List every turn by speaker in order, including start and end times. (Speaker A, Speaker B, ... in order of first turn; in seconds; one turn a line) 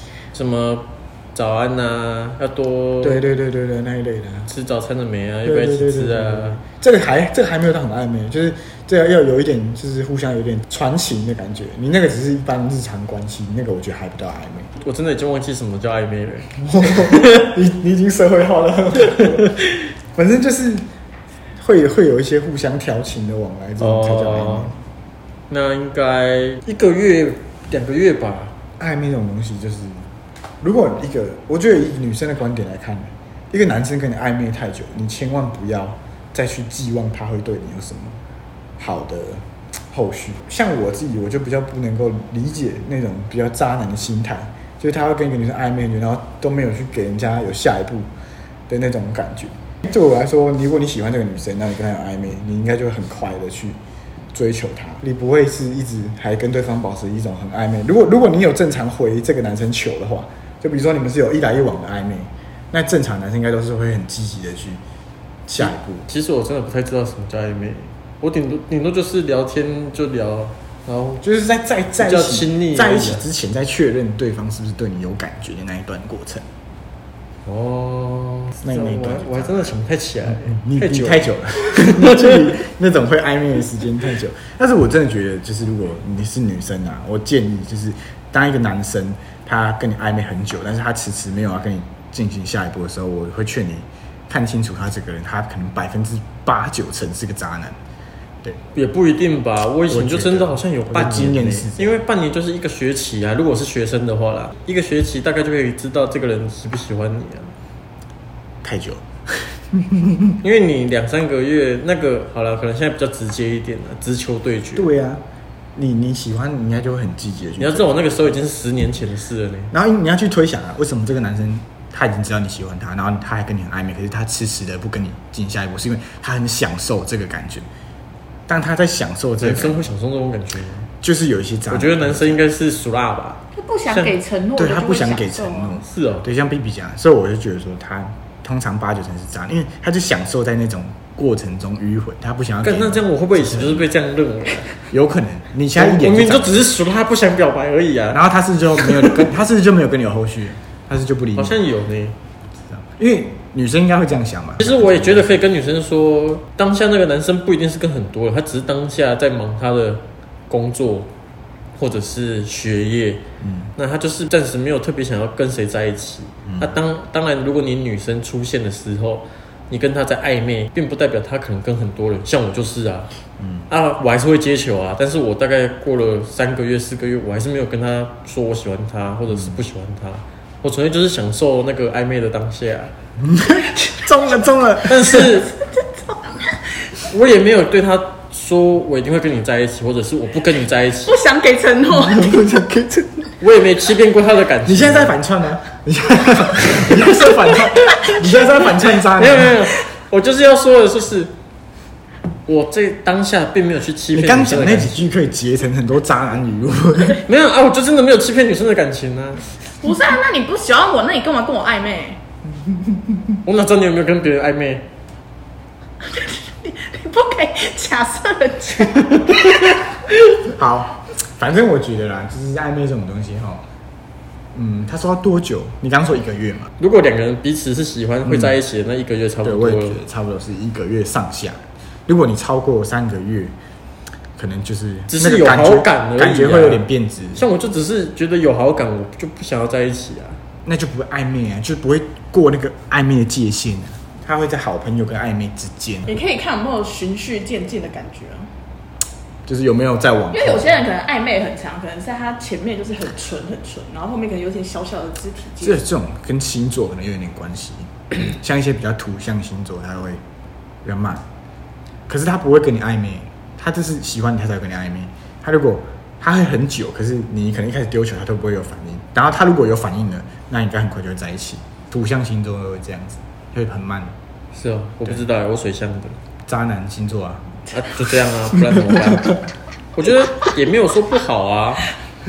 Speaker A: 0.3-3.3
Speaker B: 3.0-4.5
Speaker A: 4.5-6.6
Speaker B: 5.4-14.7
Speaker A: 14.8-17.5
Speaker B: 16.6-19.6
Speaker A: 19.2-19.8
Speaker B: 20.1-20.9
Speaker B: 21.6-24.8
Speaker A: 23.8-24.7
Speaker A: 25.5-28.6
Speaker B: 28.8-30.1
Speaker B: 30.6-38.2
Speaker B: 38.8-48.1
Speaker B: 48.7-53.8
Speaker B: 54.3-64.8
Speaker B: 65.5-66.1
Speaker A: 65.6-71.2
Speaker B: 71.2-76.5
Speaker A: 72.0-73.3
Speaker A: 77.5-82.5
Speaker B: 78.6-97.8
Speaker A: 98.7-107.5
Speaker B: 99.9-102.0
Speaker B: 108.6-110.4
Speaker A: 110.4-114.9
Speaker B: 114.8-118.1
Speaker A: 117.6-119.7
Speaker B: 119.7-127.7
Speaker B: 128.5-129.8
Speaker A: 129.4-130.9
Speaker B: 131.0-132.4
Speaker A: 131.7-134.2
Speaker C: 133.5-135.8
Speaker B: 134.6-143.9
Speaker A: 135.8-136.3
Speaker A: 142.6-144.8
Speaker B: 144.9-146.7
Speaker A: 145.8-148.2
Speaker B: 148.1-151.6
Speaker A: 148.8-149.3
Speaker A: 151.4-152.2
Speaker B: 152.7-155.3
Speaker A: 154.6-161.1
Speaker A: 161.8-173.1
Speaker B: 163.4-163.7
Speaker B: 166.4-166.8
Speaker B: 173.4-173.7
Speaker A: 173.7-182.9
Speaker B: 179.3-179.6
Speaker B: 183.2-185.4
Speaker A: 184.8-185.6
Speaker C: 185.8-186.6
Speaker A: 187.1-191.2
Speaker C: 191.1-192.7
Speaker B: 191.9-193.4
Speaker A: 193.4-195.2
Speaker B: 194.7-199.7
Speaker C: 196.8-198.9
Speaker A: 198.8-201.3
Speaker A: 202.5-205.1
Speaker B: 204.1-207.2
Speaker A: 207.2-209.5
Speaker C: 209.8-212.2
Speaker B: 212.5-213.4
Speaker A: 213.4-214.9
Speaker C: 216.1-220.0
Speaker B: 220.4-223.6
Speaker B: 224.5-226.7
Speaker A: 226.8-230.0
Speaker B: 228.2-228.6
Speaker B: 229.4-233.6
Speaker B: 234.4-237.4
Speaker A: 235.1-240.4
Speaker B: 240.7-246.1
Speaker C: 246.1-248.5
Speaker B: 249.5-250.8
Speaker C: 250.3-255.8
Speaker B: 255.6-260.2
Speaker B: 260.8-261.3
Speaker B: 262.1-274.2
Speaker A: 274.5-276.2
Speaker B: 276.5-277.6
Speaker A: 277.7-279.4
Speaker B: 278.5-279.4
Speaker A: 279.9-281.9